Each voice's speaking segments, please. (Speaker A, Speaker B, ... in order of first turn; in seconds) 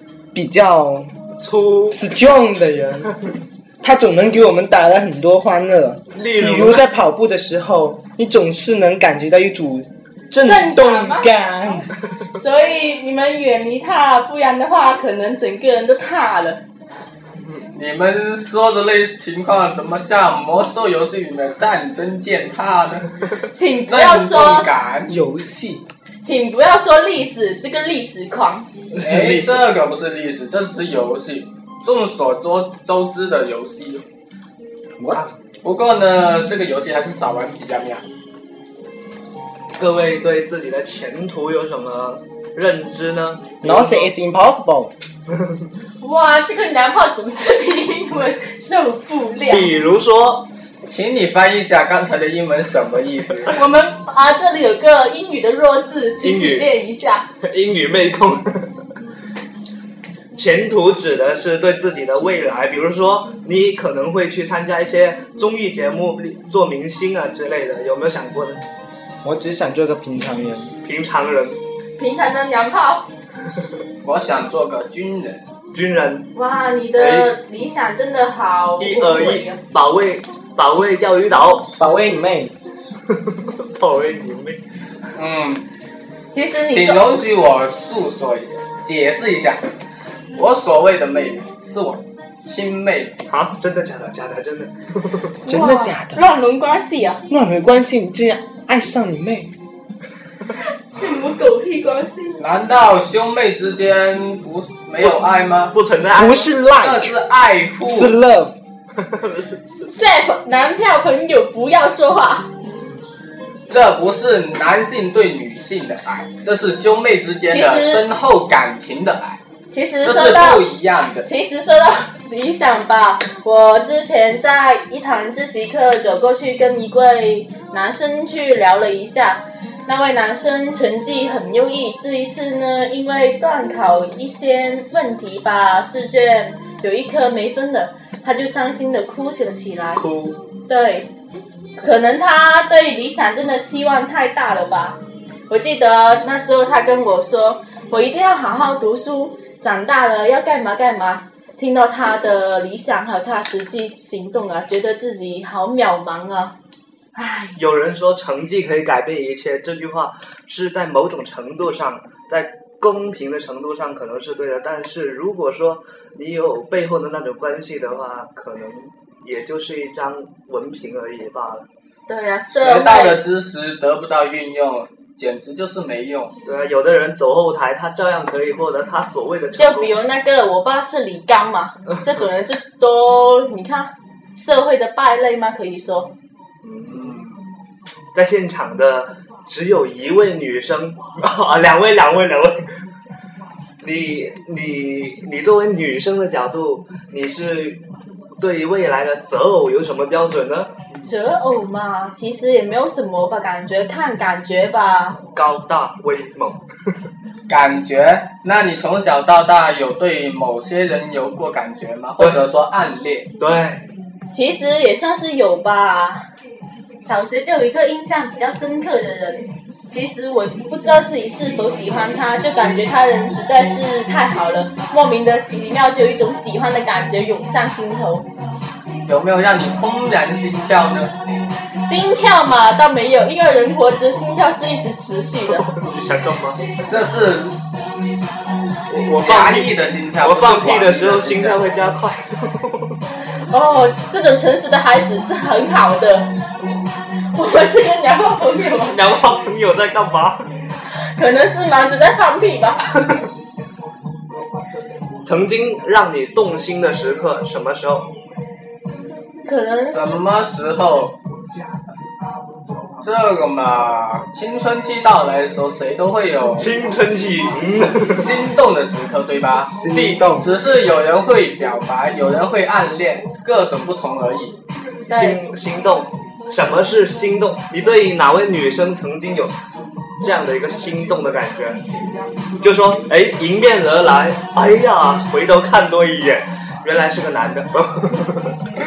Speaker A: 0.3-1.1, 1.9-3.1, 3.8-11.9, 25.1-25.8, 35.0-35.3, 43.6-44.9, 69.2-70.7, 81.8-82.5, 95.4-96.2, 97.3-99.5, 106.1-107.1, 107.8-108.6, 269.7-270.5
Speaker B: 1.4-2.0, 6.1-6.8, 29.1-29.5, 39.8-43.6, 49.5-50.5, 56.2-56.7, 57.4-58.7, 60.3-68.6, 70.8-71.6, 75.7-76.3, 77.0-77.3, 78.8-81.7, 83.1-84.6, 93.3-95.3, 105.7-106.5, 109.0-109.4, 139.9-140.4, 157.6-171.7, 176.4-179.9, 186.6-187.1, 188.1-192.7, 193.8-197.8, 198.4-200.7, 205.3-206.6, 213.4-213.8, 235.6-236.7, 238.9-243.0, 248.9-250.5, 255.2-258.1, 266.6-268.3, 269.9-270.2, 275.1-279.5, 280.2-281.8, 282.6-288.6
Speaker C: 10.4-11.3, 12.3-16.6, 23.5-24.7, 26.2-28.6, 46.0-49.7, 53.5-57.3, 72.0-73.1, 76.3-79.6, 86.3-87.1, 95.4-97.2, 100.6-102.4, 109.7-112.5, 117.5-118.0, 119.7-120.7, 121.2-140.0, 140.7-141.1, 141.8-156.5, 157.1-157.6, 172.1-173.2, 179.6-186.1, 201.0-205.2, 214.3-216.2, 217.0-228.2, 231.8-235.7, 243.5-246.3, 247.3-249.1, 250.9-252.8, 259.4-260.2, 275.1-275.4
Speaker D: 17.7-23.1, 23.9-25.1, 29.0-34.0, 35.6-38.0, 43.6-44.1, 50.9-53.5, 74.0-75.4, 85.1-85.6, 86.7-89.6, 90.3-93.2, 102.4-105.8, 106.8-108.2, 113.7-119.4, 120.0-121.3, 172.5-176.3, 186.9-187.4, 207.5-213.3, 229.0-231.1, 236.9-237.5, 239.1-241.6, 259.9-261.1, 263.0-266.7, 268.1-269.7, 270.4-274.6